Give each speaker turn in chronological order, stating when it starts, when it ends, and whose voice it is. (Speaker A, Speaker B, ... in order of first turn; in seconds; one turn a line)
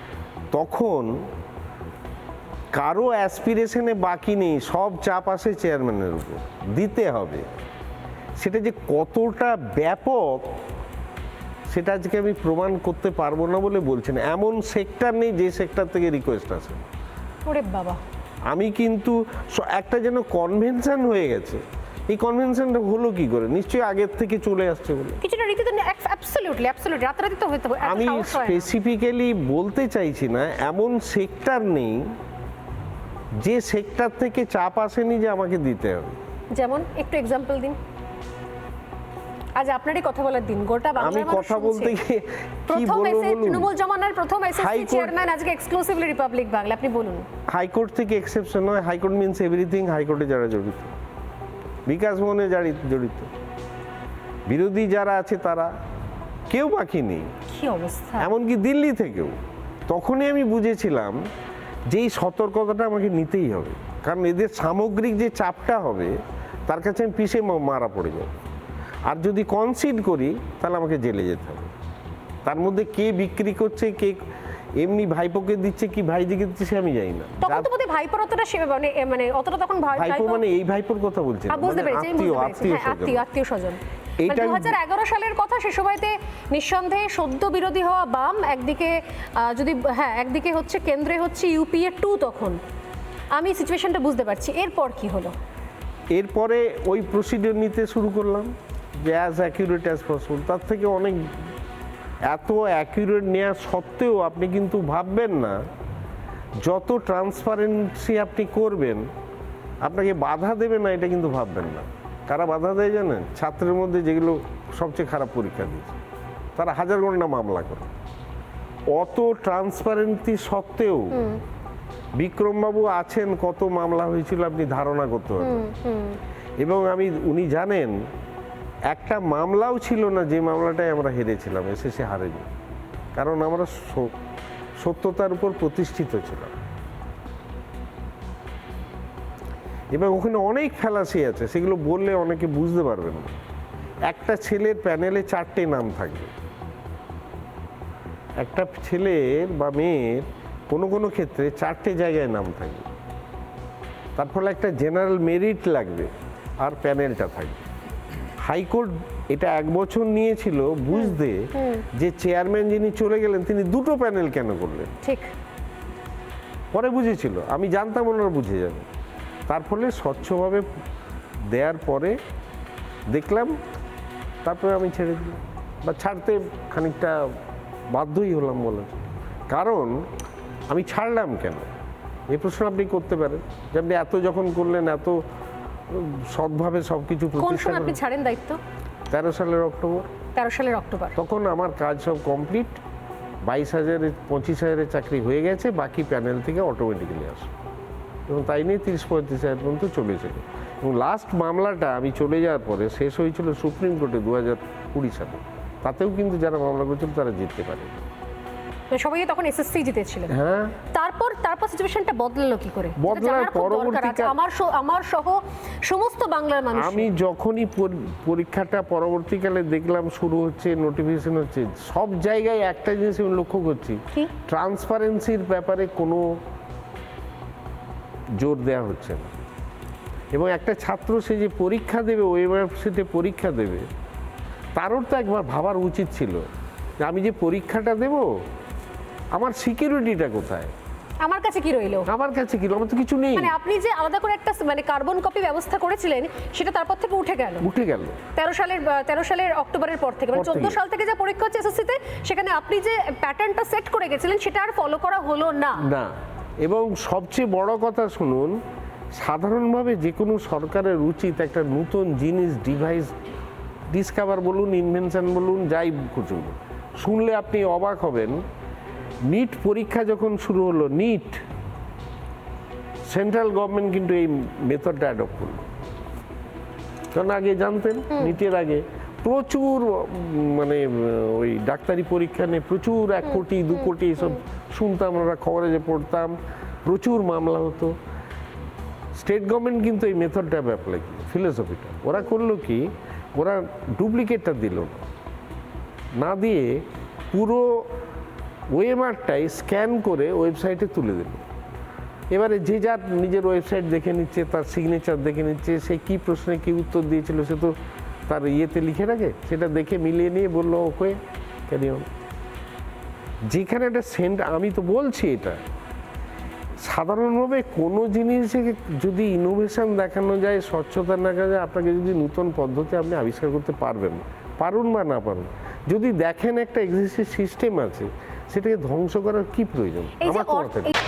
Speaker A: 0.5-1.1
Speaker A: 2.7-7.4
Speaker A: 8.4-10.5
Speaker A: 11.7-16.8
Speaker B: 17.4-18.0
Speaker A: 18.5-25.2
Speaker B: 25.2-28.7
Speaker A: 27.8-32.1
Speaker A: 33.4-36.2
Speaker B: 36.5-37.8
Speaker B: 39.5-41.9
Speaker A: 41.0-43.7
Speaker B: 42.7-47.3
Speaker A: 44.5-45.1
Speaker A: 47.5-50.9
Speaker A: 51.9-53.3
Speaker A: 54.5-55.7
Speaker A: 56.5-57.3
Speaker B: 57.5-58.3
Speaker A: 58.2-59.4
Speaker A: 59.9-61.2
Speaker A: 61.9-66.2
Speaker A: 66.7-68.3
Speaker A: 69.0-71.7
Speaker A: 72.4-74.2
Speaker A: 74.8-77.7
Speaker B: 77.4-80.4
Speaker A: 80.0-83.2
Speaker B: 81.5-92.6
Speaker A: 84.2-84.8
Speaker B: 93.3-95.3
Speaker A: 96.1-101.3
Speaker A: 102.3-105.6
Speaker A: 106.6-109.1
Speaker A: 109.8-116.0
Speaker A: 116.5-117.9
Speaker A: 118.9-121.3
Speaker B: 121.1-121.4
Speaker A: 122.2-125.7
Speaker B: 125.4-126.2
Speaker A: 126.6-128.0
Speaker A: 128.9-132.5
Speaker A: 133.1-134.1
Speaker A: 134.8-136.6
Speaker A: 139.9-143.3
Speaker A: 144.1-146.3
Speaker A: 148.4-152.9
Speaker A: 154.2-157.6
Speaker A: 158.4-164.9
Speaker B: 160.9-161.8
Speaker B: 165.0-165.3
Speaker A: 166.7-168.8
Speaker A: 169.5-170.7
Speaker A: 171.5-172.2
Speaker A: 173.1-173.6
Speaker A: 174.4-177.2
Speaker A: 177.9-180.0
Speaker A: 180.7-181.6
Speaker A: 182.3-185.2
Speaker A: 185.9-188.0
Speaker B: 187.4-188.6
Speaker A: 189.1-190.1
Speaker B: 190.3-191.1
Speaker A: 191.2-192.8
Speaker A: 193.4-197.5
Speaker A: 198.3-208.0
Speaker B: 208.9-210.3
Speaker A: 210.3-210.7
Speaker B: 210.9-217.1
Speaker A: 213.0-214.3
Speaker A: 216.7-226.3
Speaker A: 228.4-229.3
Speaker A: 230.3-233.8
Speaker A: 234.7-236.4
Speaker A: 237.0-238.3
Speaker A: 239.3-240.7
Speaker B: 241.2-242.1
Speaker A: 242.1-243.5
Speaker B: 243.3-247.7
Speaker A: 247.6-248.2
Speaker B: 248.3-255.8
Speaker A: 250.3-250.8
Speaker A: 255.8-258.6
Speaker A: 259.1-263.1
Speaker A: 263.9-268.4
Speaker A: 269.3-271.4
Speaker A: 273.1-275.7
Speaker A: 277.1-286.3
Speaker A: 286.9-287.9
Speaker A: 289.1-295.0
Speaker A: 296.2-297.9
Speaker A: 298.7-301.4
Speaker A: 302.3-307.8
Speaker A: 308.3-312.1
Speaker A: 313.5-315.6
Speaker A: 316.8-330.9
Speaker B: 330.2-330.9